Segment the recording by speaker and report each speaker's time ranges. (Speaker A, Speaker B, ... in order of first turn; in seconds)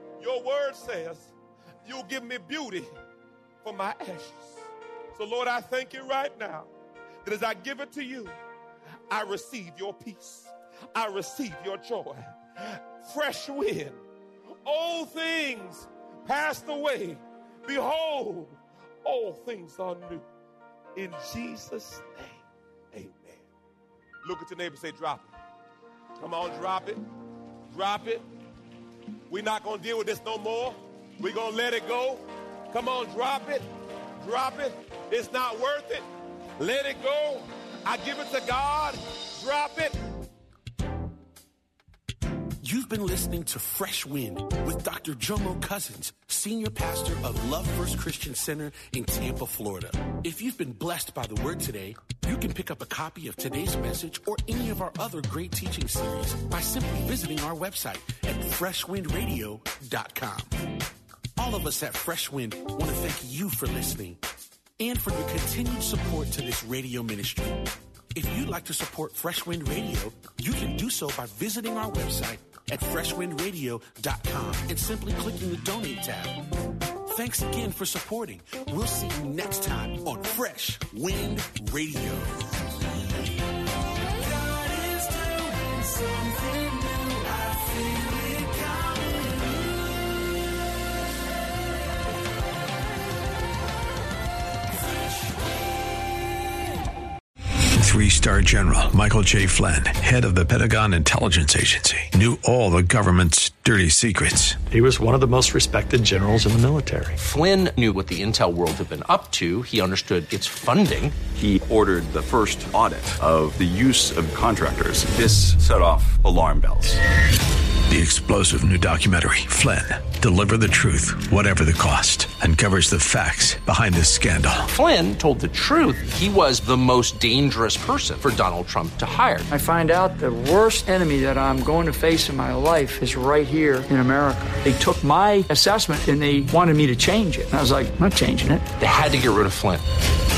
Speaker A: 0.2-2.9, 3.6-6.7, 7.2-8.3, 9.1-14.0, 14.6-20.2, 20.9-23.5, 24.2-25.3, 26.2-27.0, 27.7-28.2, 29.3-33.6, 34.2-36.0, 36.6-40.0
Speaker B: 42.6-60.6, 61.4-64.2, 64.8-76.4, 77.0-83.3, 84.0-90.2
Speaker C: 97.8-104.6, 117.9-124.7
Speaker D: 104.7-107.2
Speaker E: 107.2-111.1, 124.7-129.5, 138.8-139.8
Speaker F: 111.3-117.0
Speaker G: 129.5-138.6